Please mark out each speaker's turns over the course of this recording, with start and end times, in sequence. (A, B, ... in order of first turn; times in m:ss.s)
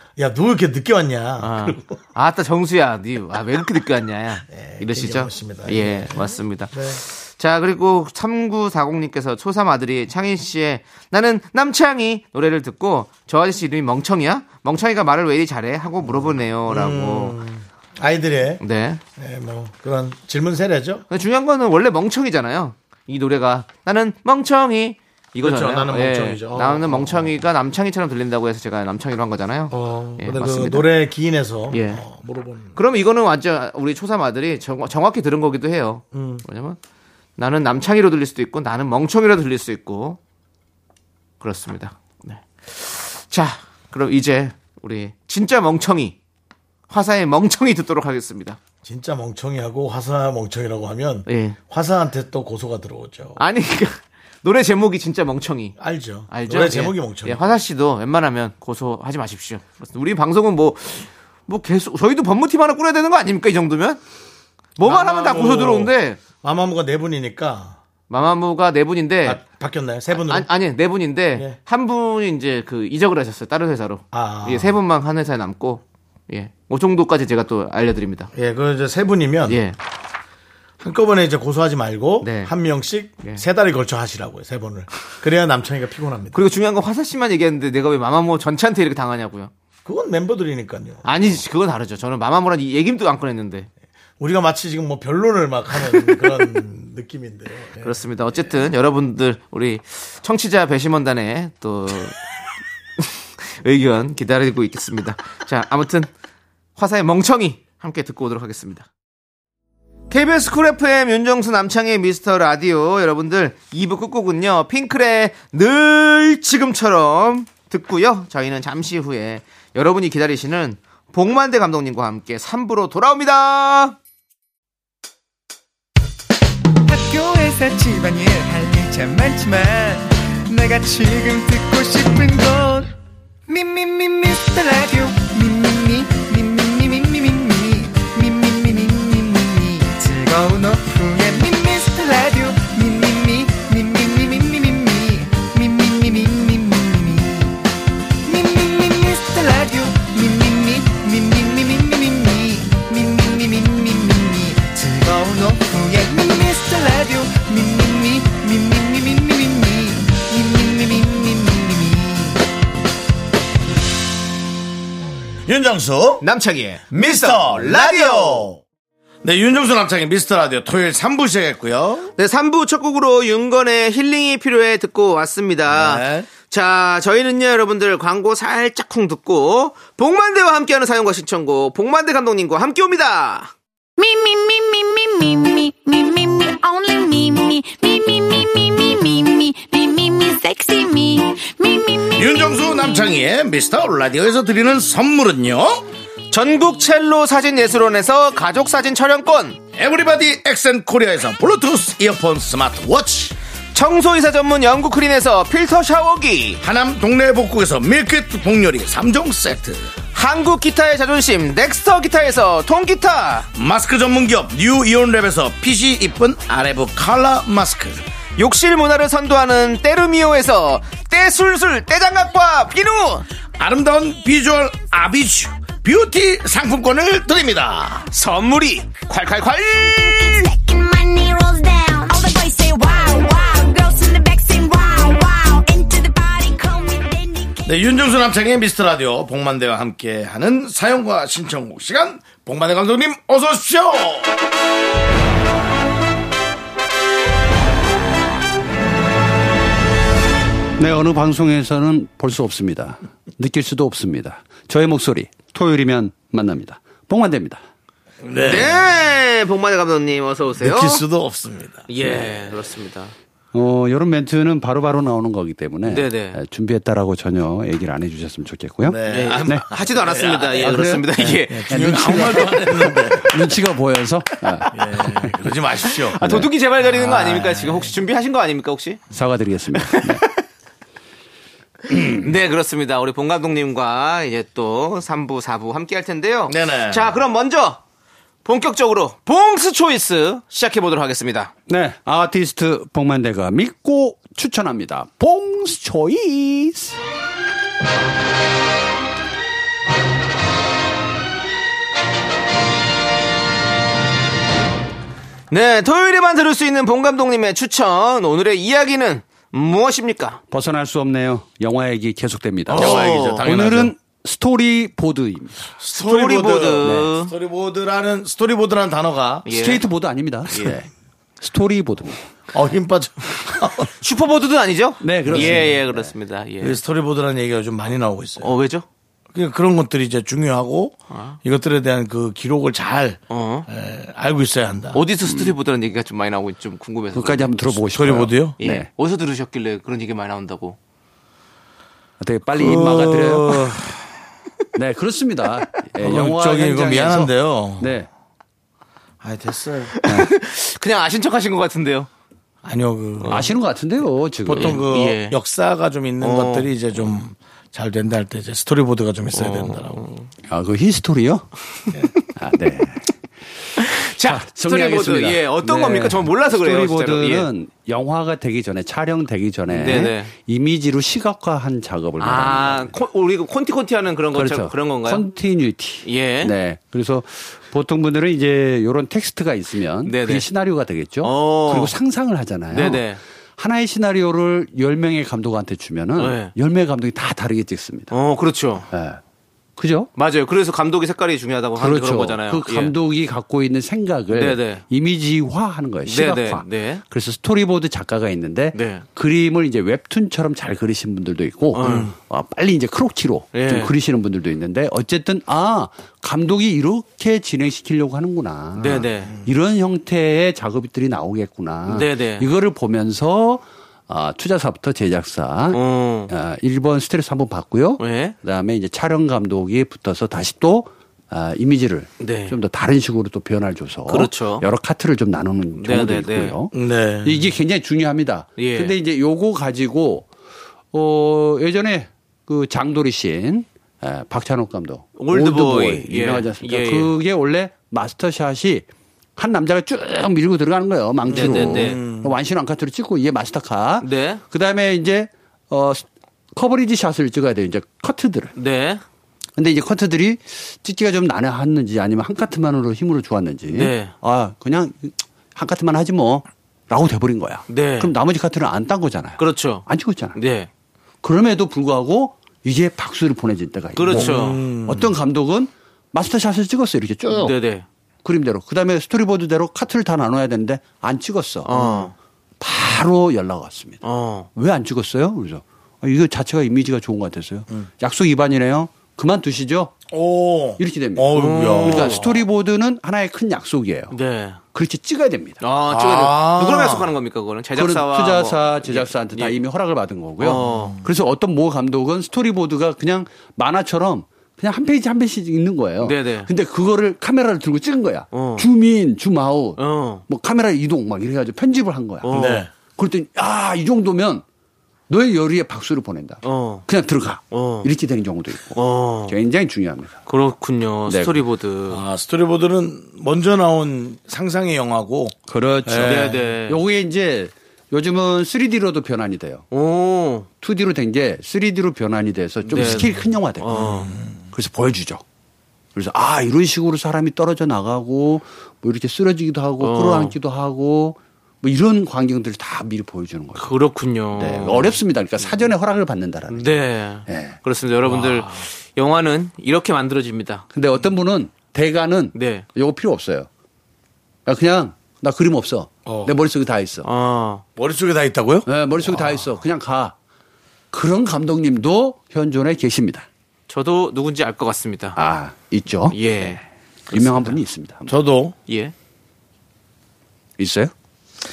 0:00.2-0:02.0 A
0:01.4-0:17.4 B
0:04.5-0:07.0 A
0:16.0-0:18.6 A
0:18.6-0:19.0 B
0:19.2-0:21.0 A
0:21.1-0:30.9 B
0:25.4-0:27.3 A
0:29.7-0:32.8 A
0:31.7-0:32.0 B
0:32.8-0:36.8 B
0:36.1-0:36.4 A
0:37.4-0:40.2 B
0:41.4-0:46.2 B
0:46.9-0:48.6 B
0:48.8-0:53.4 A
0:51.3-0:51.6 B
0:53.4-0:55.7 B
0:55.8-0:57.5 A
0:56.3-1:04.0 B
1:04.8-1:06.2 B
1:04.8-1:07.8 A
1:08.1-1:09.4 B
1:09.2-1:10.5 A
1:10.1-1:18.3 B
1:14.1-1:14.8 A
1:18.3-1:19.6 A
1:19.5-1:19.8 B
1:20.8-1:26.4 A
1:22.2-1:22.5 B
1:26.3-1:29.5 B
1:29.8-1:31.4 A
1:31.0-1:33.7 B
1:34.2-1:38.0 A
1:35.9-1:36.2 B
1:37.8-1:42.2 B
1:43.0-1:46.1 B
1:46.8-1:48.9 B
1:50.1-2:04.0 B
2:06.9-2:12.9 C
2:13.5-2:27.6 C
2:28.2-2:42.4 C
2:45.4-2:46.2 A
2:46.2-2:48.5 B
2:46.9-2:48.6 A
2:49.2-2:52.1 A
2:52.2-3:03.5 B
2:55.7-2:56.3 A
3:04.0-3:12.4 D
3:12.1-3:15.8 A
3:16.3-3:19.6 B
3:19.7-3:23.4 A
3:23.7-3:26.6 B
3:26.6-3:29.9 A
3:30.1-3:33.5 B
3:33.5-3:38.0 A
3:38.4-3:43.2 B
3:43.6-3:48.1 A
3:48.1-3:50.4 B
3:50.0-3:57.6 D
3:57.6-4:04.3 A
4:10.8-4:17.6 E
4:18.2-4:18.9 A
4:18.4-4:21.0 B
4:20.6-4:21.9 A
4:21.9-4:23.1 B
4:23.5-4:29.6 E
4:25.8-4:26.4 B
4:28.8-4:33.5 A
4:29.1-4:31.9 B
4:30.6-4:31.1 E
4:31.7-4:35.5 E
4:34.7-4:36.2 A
4:36.1-4:36.5 E
4:36.1-4:39.0 B
4:36.9-4:37.9 A
4:39.1-4:40.2 E
4:39.8-4:40.3 B
4:41.9-4:42.3 E
4:42.1-4:47.8 B
4:46.5-4:47.2 A
4:48.4-4:51.5 B
4:51.7-4:57.0 E
5:05.5-5:10.4 B
5:10.5-5:15.6 E
5:12.7-5:13.9 A
5:12.7-5:13.4 B
5:15.8-5:19.5 A
5:16.0-5:17.3 B
5:16.8-5:17.1 E
5:19.4-5:19.8 B
5:19.5-5:20.9 E
5:20.5-5:20.8 B
5:21.4-5:22.2 E
5:22.5-5:23.9 A
5:24.0-5:26.8 B
5:25.0-5:26.1 E
5:25.2-5:25.7 A
5:26.6-5:28.5 A
5:28.4-5:28.8 B
5:29.3-5:35.0 A
5:31.1-5:31.4 B
5:33.3-5:33.7 B
5:34.9-5:37.6 B
5:35.2-5:35.6 E
5:37.1-5:38.9 E
5:37.9-5:38.6 A
5:38.6-5:40.8 B
5:42.2-5:43.9 E
5:42.5-5:43.9 A
5:44.7-5:48.1 E
5:46.0-5:47.9 A
5:49.2-5:49.9 A
5:49.9-5:52.1 B
5:52.6-5:53.5 A
5:53.2-5:53.5 B
5:53.3-5:54.8 E
5:54.4-6:00.0 A
5:54.6-5:55.4 B
5:56.2-5:56.7 B
5:59.3-6:00.3 B
6:00.5-6:01.5 E
6:02.4-6:03.1 E
6:03.8-6:07.5 B
6:04.0-6:12.9 E
6:09.7-6:10.3 B
6:12.2-6:15.2 B
6:14.3-6:28.1 E
6:16.0-6:16.5 B
6:20.0-6:20.4 B
6:21.2-6:21.9 B
6:22.7-6:23.2 B
6:26.2-6:26.5 B
6:28.1-6:28.9 B
6:28.9-6:29.2 E
6:29.8-6:30.1 E
6:30.2-6:32.9 B
6:31.8-7:10.3 E
6:34.3-6:34.8 B
6:36.0-6:37.0 B
6:38.7-6:39.0 B
6:41.7-6:42.1 B
6:41.8-6:42.1 A
6:43.5-6:43.9 B
6:48.8-6:49.3 B
6:51.9-6:52.4 B
6:55.7-6:56.3 B
6:58.0-6:58.4 B
7:02.2-7:02.6 B
7:04.1-7:04.6 B
7:05.8-7:06.6 B
7:06.7-7:07.5 A
7:08.6-7:08.9 B
7:10.9-7:28.5 E
7:15.2-7:17.1 B
7:21.3-7:22.0 B
7:21.3-7:22.3 A
7:24.0-7:24.4 B
7:28.5-7:29.0 B
7:29.6-7:40.4 E
7:33.7-7:34.1 B
7:37.7-7:38.1 B
7:39.4-7:40.7 B
7:41.2-7:47.6 E
7:44.0-7:44.6 B
7:44.1-7:45.1 A
7:47.3-7:47.8 B
7:48.2-7:54.0 E
7:51.6-7:52.1 B
7:54.0-7:54.5 B
7:54.5-7:59.9 E
8:00.1-8:02.4 A
8:00.8-8:04.1 E
8:01.3-8:02.3 B
8:04.1-8:04.6 B
8:04.7-8:05.6 E
8:05.6-8:09.6 B
8:05.9-8:07.1 A
8:07.7-8:24.4 E
8:10.4-8:11.0 B
8:10.6-8:11.1 A
8:16.0-8:16.5 B
8:18.3-8:18.6 B
8:19.8-8:20.2 B
8:22.2-8:22.6 B
8:22.3-8:22.7 A
8:25.1-8:30.2 E
8:26.4-8:26.8 B
8:27.5-8:27.9 B
8:28.7-8:29.3 B
8:30.3-8:32.0 B
8:31.1-8:31.4 E
8:31.9-8:36.4 A
8:35.5-8:39.6 E
8:36.0-8:36.8 B
8:39.7-8:40.5 B
8:40.6-8:45.2 E
8:42.6-8:44.1 B
8:43.7-8:44.3 A
8:45.9-8:53.7 E
8:49.8-8:50.3 B
8:53.6-8:55.7 B
8:54.4-8:57.6 E
8:56.5-9:00.6 B
8:58.0-8:58.6 A
9:00.7-9:03.5 E
9:02.3-9:02.6 B
9:04.4-9:07.1 E
9:06.0-9:06.3 A
9:07.0-9:07.6 B
9:07.8-9:09.5 A
9:08.6-9:10.1 E
9:10.9-9:13.2 E
9:13.7-9:15.2 B
9:15.2-9:18.1 E
9:16.1-9:16.6 B
9:17.1-9:17.6 B
9:18.1-9:18.5 A
9:18.7-9:18.9 B
9:20.6-9:20.9 E